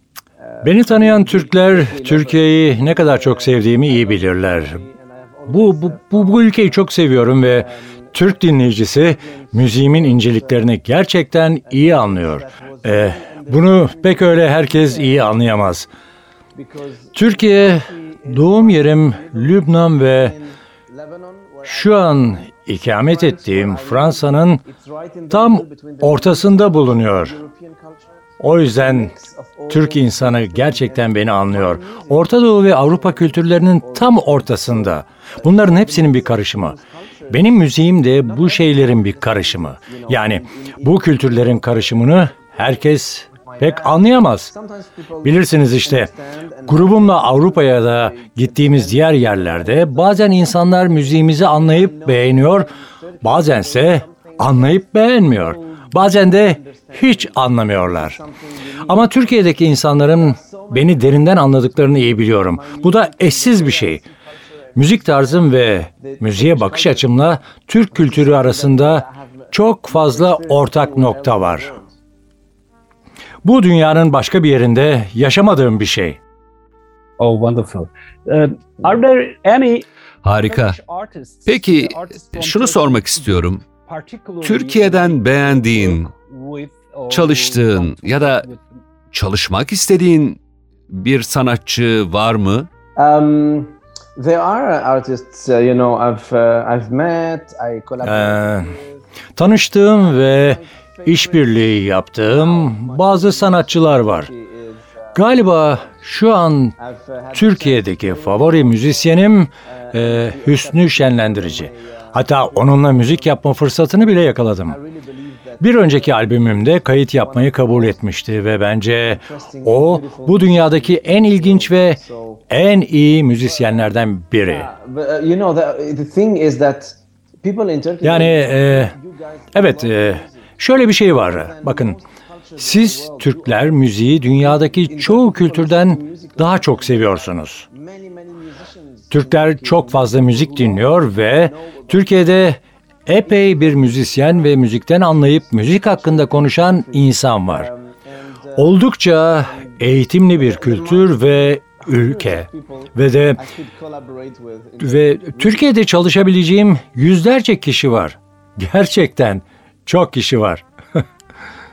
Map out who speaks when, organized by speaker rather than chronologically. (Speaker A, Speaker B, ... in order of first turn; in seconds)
Speaker A: 0.4-10.8, 11.6-15.7, 16.5-37.7, 38.2-67.2, 67.9-71.9, 93.0-99.0, 99.9-106.0, 106.8-114.1, 114.7-118.0, 119.0-122.5, 123.3-130.5, 131.1-142.4, 143.2-155.7
Speaker B: 0.6-4.8, 5.5-15.9, 17.1-20.3, 21.6-24.6, 25.3-27.4, 28.4-29.1, 29.7-36.8, 37.3-44.5, 45.2-46.1, 46.7-58.2, 58.8-64.0, 64.8-71.7, 73.4-76.2, 98.0-98.7, 99.4-104.3, 105.1-106.7, 107.3-114.8, 115.6-124.7, 128.0-128.9, 129.5-132.0, 132.6-137.7, 139.1-147.7, 148.6-153.4, 154.8-161.0
Speaker C: 77.2-79.8, 80.4-88.8
Speaker D: 80.2-80.8, 81.5-83.6, 84.4-86.1, 87.1-88.5, 89.1-92.7